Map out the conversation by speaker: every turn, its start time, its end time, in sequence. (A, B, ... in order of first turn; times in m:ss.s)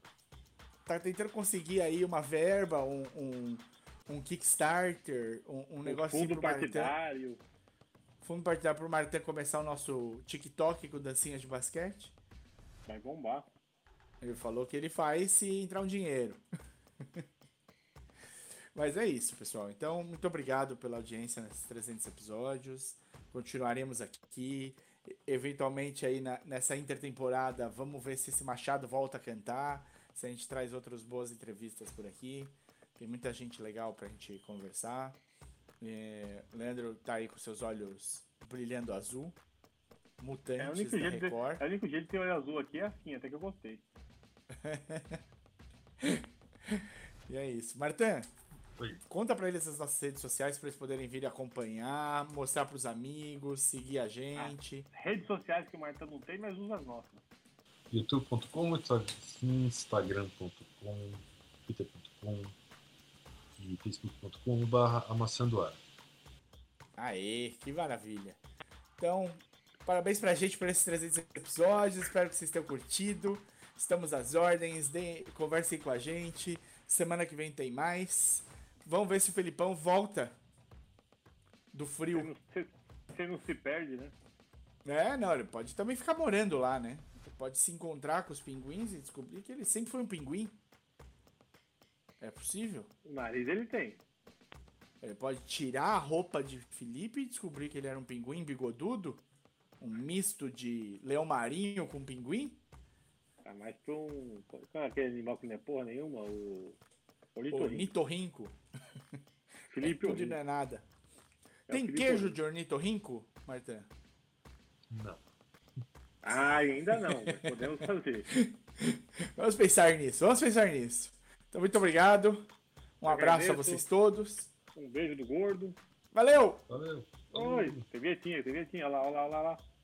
0:00.8-0:06.9 A
0:05.8-0:07.4 B
0:08.2-0:12.1 A
0:12.8-0:13.5 B
0:14.2-0:16.4 A
0:18.7-0:35.2 A
0:35.8-0:39.4 A
0:40.2-0:41.6 A
0:40.6-0:43.8 B
0:44.6-0:45.2 A
0:46.0-0:48.3 A
0:49.0-0:54.9 A
0:54.3-0:57.2 B
0:57.9-1:02.5 C
1:03.6-1:05.8 C
1:07.0-1:08.4 A
1:09.0-1:20.4 A
1:21.7-1:22.3 A
1:22.1-1:24.1 B
1:24.8-1:30.6 A
1:32.2-1:32.9 A
1:33.0-1:34.0 B
1:35.0-1:39.2 A
1:39.8-1:42.6 A
1:43.4-1:46.8 B
1:47.4-1:47.9 B
1:47.5-1:48.6 A
1:49.7-1:50.4 B
1:49.8-1:50.9 A
1:51.7-1:52.4 B
1:51.7-1:53.9 A
1:54.9-1:55.2 C
1:56.2-1:58.3 B
1:58.3-2:04.5 A
2:03.0-2:03.8 B
2:04.7-2:05.8 B
2:06.1-2:06.6 A
2:06.7-2:07.8 C
2:07.3-2:09.6 B